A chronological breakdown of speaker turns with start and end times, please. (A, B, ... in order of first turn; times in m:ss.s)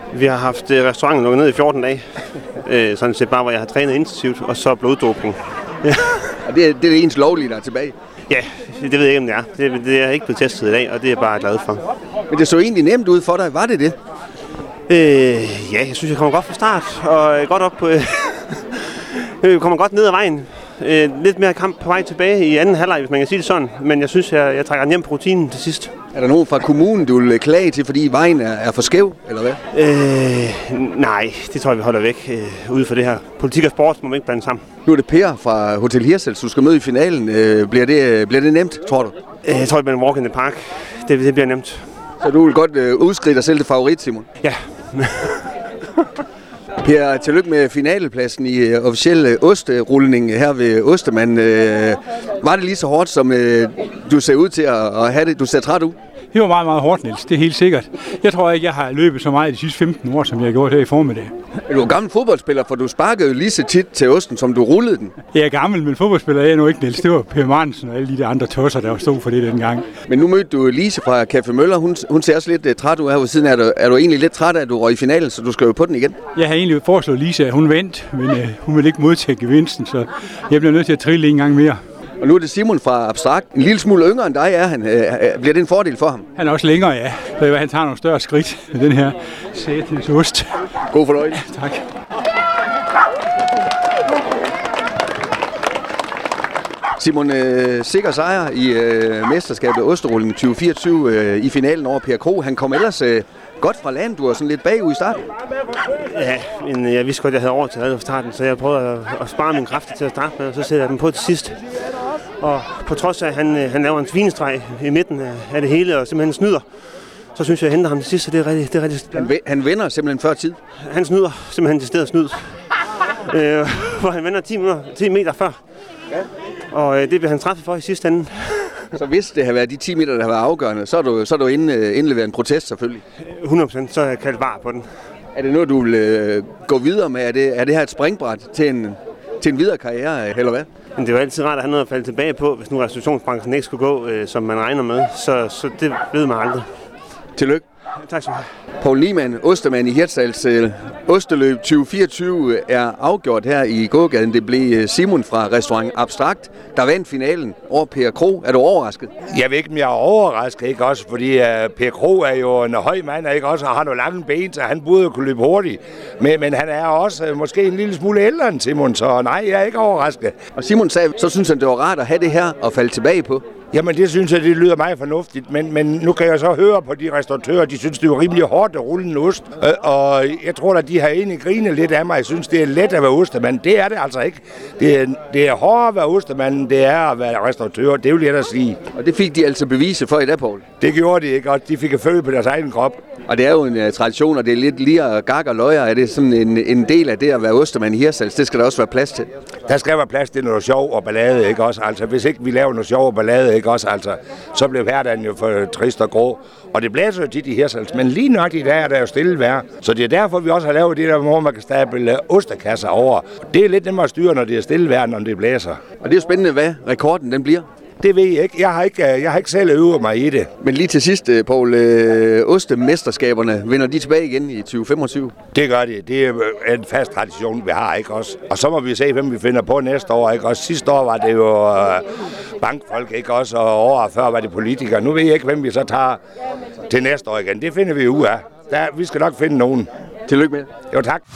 0:00.1-0:02.0 A
0:02.6-0:06.3 A
0:06.4-0:07.9 B
0:08.3-0:11.8 A
0:12.3-0:14.0 B
0:14.9-0:25.9 A
0:26.1-0:29.6 B
0:29.7-0:34.6 A
0:34.8-0:39.2 B
0:39.4-0:41.8 A
0:42.2-0:44.2 B
0:44.4-0:45.5 A
0:46.8-0:56.0 B
0:56.3-1:01.3 C
1:01.7-1:05.1 B
1:05.3-1:09.9 C
1:10.1-1:16.2 B
1:16.3-1:21.8 C
1:22.2-1:26.3 B
1:26.4-1:30.6 C
1:30.9-1:31.4 B
1:31.4-1:31.8 C
1:37.0-1:45.2 B
1:46.0-1:51.6 A
1:52.4-1:56.6 A
1:57.3-1:59.3 A
1:59.1-2:00.6 B
2:00.8-2:02.4 A
2:03.2-2:05.6 A
2:06.7-2:08.8 A
2:08.9-2:13.0 B
2:13.3-2:14.8 A
2:15.3-2:20.7 B
2:21.0-2:26.6 A
2:27.4-2:27.6 B
2:28.0-2:28.4 A
2:28.8-2:39.1 B
2:39.3-2:50.3 D
2:50.6-2:53.4 B
2:53.7-3:08.8 D
3:08.9-3:10.6 B
3:10.8-3:13.0 D
3:13.3-3:19.3 B
3:19.7-3:35.8 D
3:36.0-3:37.6 B
3:38.0-3:40.5 D
3:40.6-3:45.3 B
3:45.5-3:52.0 D
3:52.6-3:56.2 D
3:56.9-3:59.9 D
4:00.3-4:00.7 B
4:00.9-4:01.2 D